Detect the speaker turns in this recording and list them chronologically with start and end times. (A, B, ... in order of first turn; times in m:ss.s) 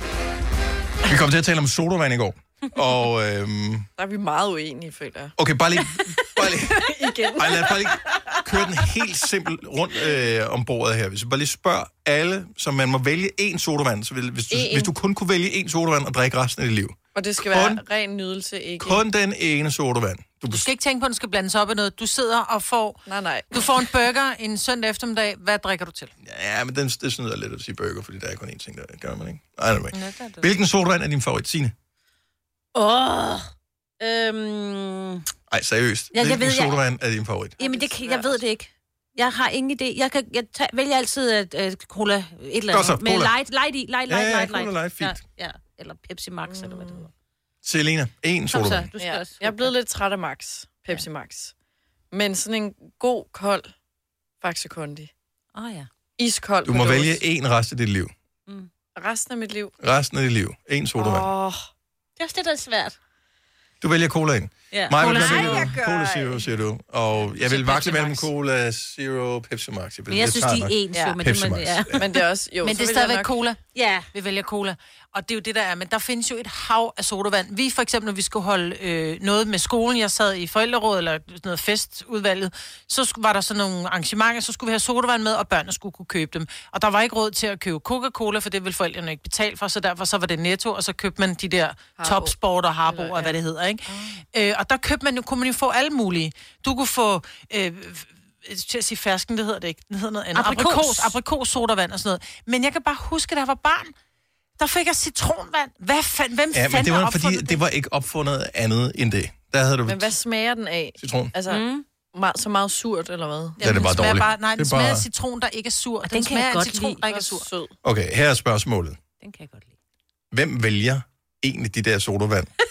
0:01.0-0:03.9 A
0:04.0-0:05.4 B
0:05.4-0:17.8 A
0:06.4-0:08.4 B
0:14.5-0:14.9 B
0:17.2-0:19.0 B
0:18.8-0:20.7 A
0:20.5-0:23.0 C
0:23.1-0:23.6 B
0:23.5-0:26.1 C
0:26.2-0:31.7 A
0:30.1-0:30.4 C
0:32.8-0:35.3 D
0:35.5-0:37.6 A
0:36.1-0:36.8 D
0:37.6-0:47.1 D
0:37.6-0:38.4 B
0:42.7-0:43.3 A
0:44.1-0:45.2 A
0:46.4-0:47.1 B
0:47.6-0:48.9 A
0:48.5-0:49.7 D
0:49.0-0:51.5 B
0:52.1-0:53.7 B
0:54.4-0:55.1 B
0:55.6-0:55.9 D
0:56.2-0:57.2 B
0:56.6-0:58.1 A
0:59.0-0:59.7 B
0:59.8-1:01.3 A
1:01.0-1:01.7 B
1:02.2-1:03.0 D
1:03.8-1:12.1 A
1:04.7-1:05.6 D
1:05.0-1:05.8 C
1:05.1-1:06.2 B
1:07.4-1:08.3 C
1:10.1-1:12.0 D
1:12.0-1:13.3 B
1:12.6-1:13.6 C
1:13.8-1:14.1 D
1:14.1-1:44.0 C
1:32.0-1:32.4 B
1:32.9-1:33.4 B
1:33.9-1:34.2 D
1:40.4-1:41.2 D
1:44.6-1:47.6 C
1:46.5-1:50.2 A
1:49.9-1:53.6 B
1:51.0-1:51.3 A
1:51.5-1:51.8 D
1:53.6-1:57.5 C
1:53.6-1:55.0 A
1:56.1-1:57.0 D
1:57.1-1:57.8 B
1:57.8-1:59.0 A
1:59.2-1:59.7 D
2:00.3-2:02.5 A